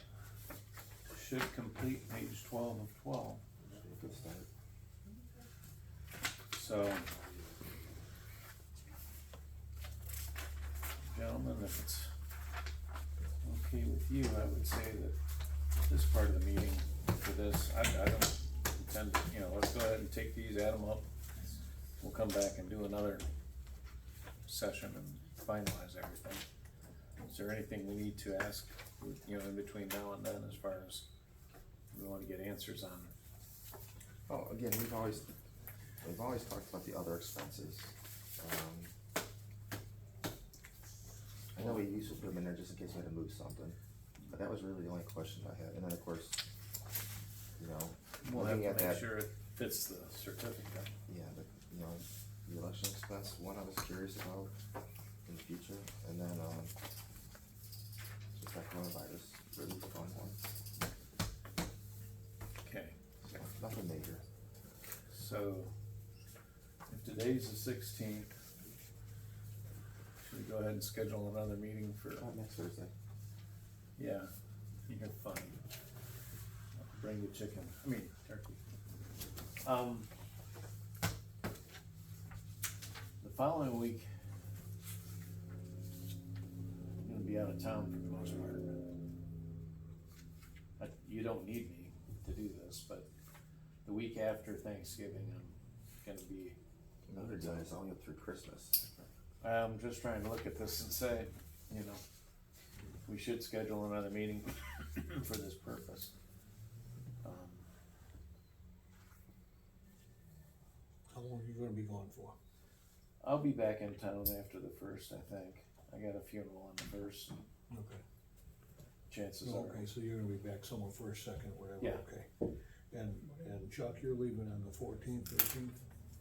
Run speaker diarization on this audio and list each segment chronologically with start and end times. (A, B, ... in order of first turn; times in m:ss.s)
0:01.1-0:03.4 A
0:03.8-0:04.5 B
0:06.5-0:07.1 A
0:11.1-0:12.1 A
0:13.4-0:15.2 A
0:15.9-0:21.0 A
0:22.0-0:23.3 A
0:24.5-0:26.4 A
0:27.3-0:31.0 A
0:31.9-0:33.1 A
0:34.3-0:35.3 B
0:36.0-0:38.9 B
0:41.6-0:46.4 B
0:47.6-0:49.1 B
0:48.2-0:50.9 A
0:51.1-0:54.5 B
0:55.3-0:56.8 B
0:58.3-1:00.5 B
1:02.6-1:03.0 A
1:03.2-1:04.2 B
1:05.1-1:05.7 A
1:06.9-1:08.3 A
1:10.2-1:12.2 A
1:12.2-1:12.9 B
1:14.0-1:14.3 A
1:14.9-1:15.6 A
1:16.8-1:18.6 A
1:19.6-1:20.1 A
1:23.2-1:24.0 A
1:27.0-1:28.8 A
1:30.8-1:33.1 A
1:33.8-1:36.6 A
1:37.1-1:38.8 B
1:37.1-1:37.7 A
1:39.4-1:42.0 A
1:43.0-1:46.1 A
1:47.2-1:47.7 A
1:51.1-1:52.4 C
1:53.2-1:57.4 A
1:57.7-1:58.0 C
1:59.1-1:59.8 A
1:59.4-2:02.3 C
2:01.8-2:02.0 A
2:02.9-2:05.8 C